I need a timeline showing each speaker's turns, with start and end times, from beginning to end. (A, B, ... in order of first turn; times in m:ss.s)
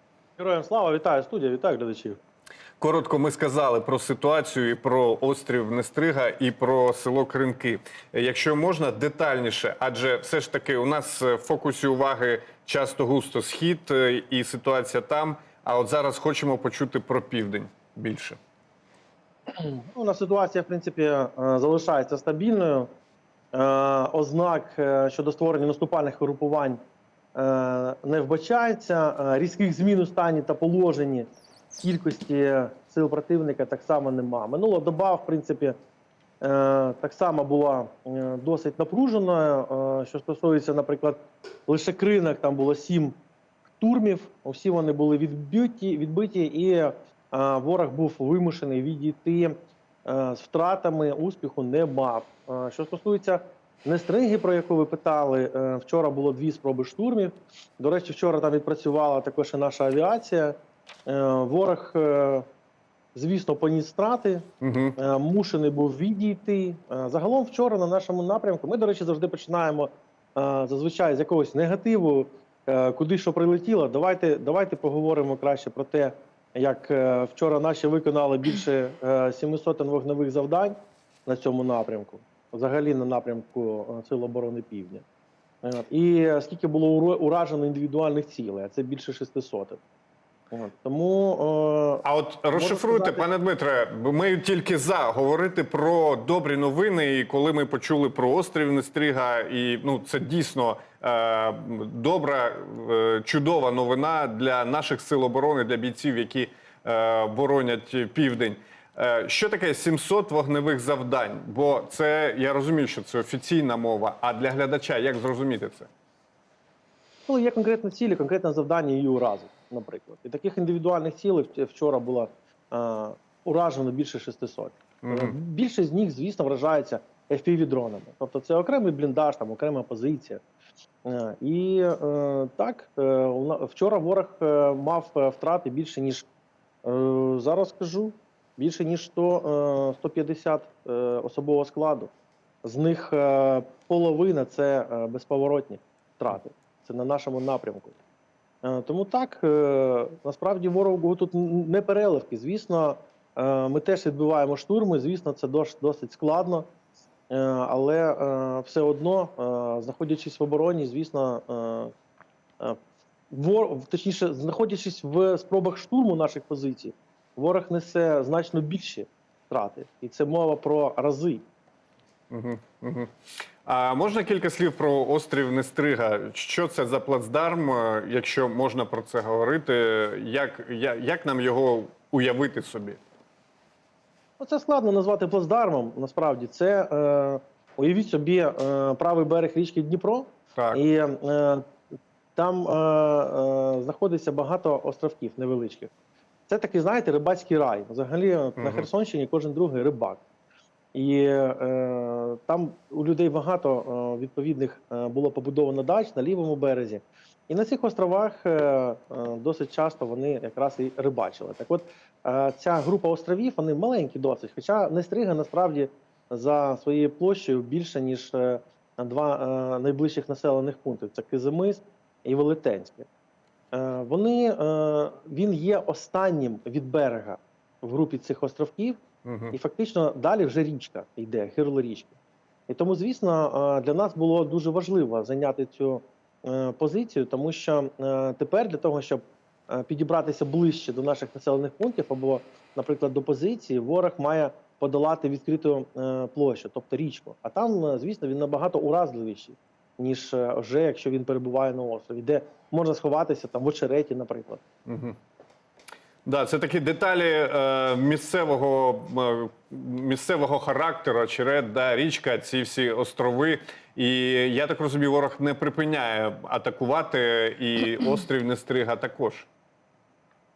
0:00.4-0:02.2 A
0:02.8-0:18.4 B
0:19.5-0:22.9 A
0:23.5-0:26.8 A
0:27.3-0:31.3 A
0:31.8-0:35.8 A
0:36.4-0:43.2 A
0:43.8-1:02.4 A
1:03.1-1:25.0 A
1:04.6-1:05.0 B
1:25.6-1:29.8 A
1:30.5-1:33.3 A
1:32.0-1:55.9 B
1:57.3-2:10.4 A
2:05.0-2:05.4 B
2:11.0-2:16.2 A
2:16.8-2:22.1 A
2:22.6-2:28.0 A
2:28.6-2:36.7 A
2:37.3-2:41.9 A
2:43.3-2:51.4 A
2:52.3-2:53.1 B
2:53.6-3:03.0 B
3:04.4-3:11.6 A
3:10.6-3:10.8 B
3:12.4-3:15.9 A
3:16.5-3:20.2 A
3:18.6-3:18.9 B
3:20.9-3:43.1 A
3:43.7-3:49.0 A
3:49.2-3:49.5 B
3:49.5-3:52.1 A
3:52.7-4:14.6 A
4:14.8-4:15.2 B
4:16.2-4:29.5 B